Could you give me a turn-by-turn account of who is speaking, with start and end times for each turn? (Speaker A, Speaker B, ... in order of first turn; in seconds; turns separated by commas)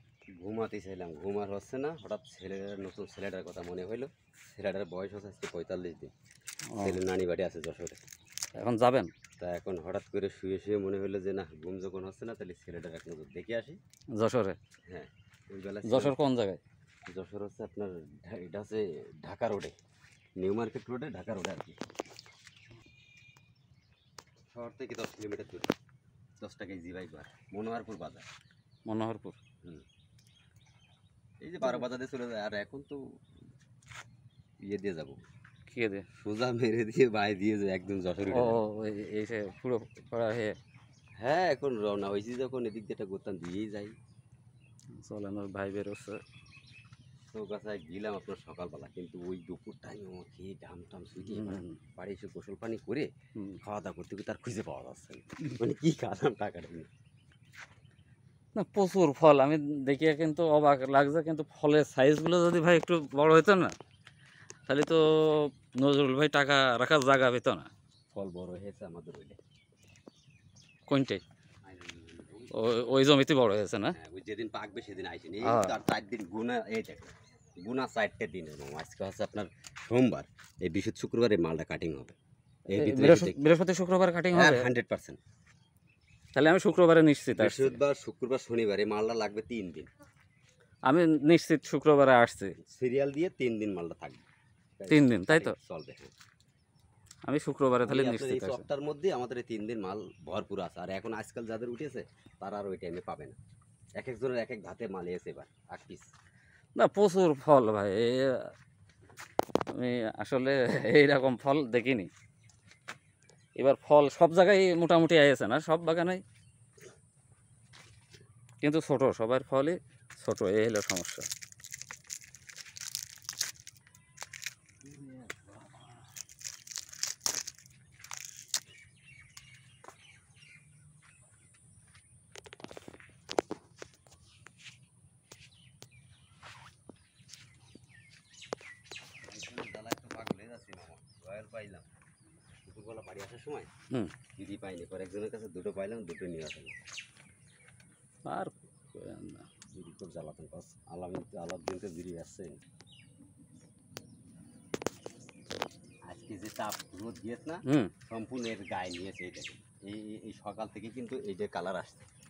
Speaker A: 0.4-6.1, Speaker B: 6.7-7.0, Speaker A: 6.8-8.0, Speaker B: 8.5-9.1, Speaker A: 9.4-13.8, Speaker B: 14.1-14.6, Speaker A: 14.9-16.1, Speaker B: 15.8-16.6, Speaker A: 17.1-19.7, Speaker A: 20.4-21.8, Speaker A: 24.5-25.7, Speaker A: 26.4-28.2, Speaker B: 28.9-29.4, Speaker A: 31.4-33.0, Speaker A: 34.6-35.2, Speaker B: 35.7-36.1, Speaker A: 36.1-38.6, Speaker B: 38.3-40.6, Speaker A: 41.2-43.9, Speaker B: 45.0-46.2, Speaker A: 47.3-53.1, Speaker B: 51.3-51.8, Speaker A: 53.6-56.9, Speaker B: 58.5-63.8, Speaker B: 64.7-67.7, Speaker A: 68.1-69.4, Speaker B: 70.9-71.2, Speaker A: 71.6-72.5, Speaker B: 72.5-74.0, Speaker A: 73.9-82.2, Speaker B: 75.4-75.8, Speaker A: 82.7-83.4, Speaker B: 82.7-84.7, Speaker A: 84.3-85.2, Speaker B: 86.3-87.8, Speaker A: 87.3-89.9, Speaker B: 90.8-92.5, Speaker A: 92.6-94.2, Speaker A: 94.8-96.1, Speaker B: 94.9-95.5, Speaker B: 97.2-98.6, Speaker A: 97.8-103.4, Speaker A: 104.0-106.1, Speaker B: 106.8-108.5, Speaker B: 109.7-112.1, Speaker B: 113.6-116.2, Speaker B: 118.6-121.3, Speaker A: 125.0-125.4, Speaker A: 139.2-141.9, Speaker A: 142.6-143.7, Speaker A: 144.4-146.8, Speaker B: 148.2-149.5, Speaker A: 149.7-152.6, Speaker A: 156.1-162.1, Speaker B: 157.7-157.9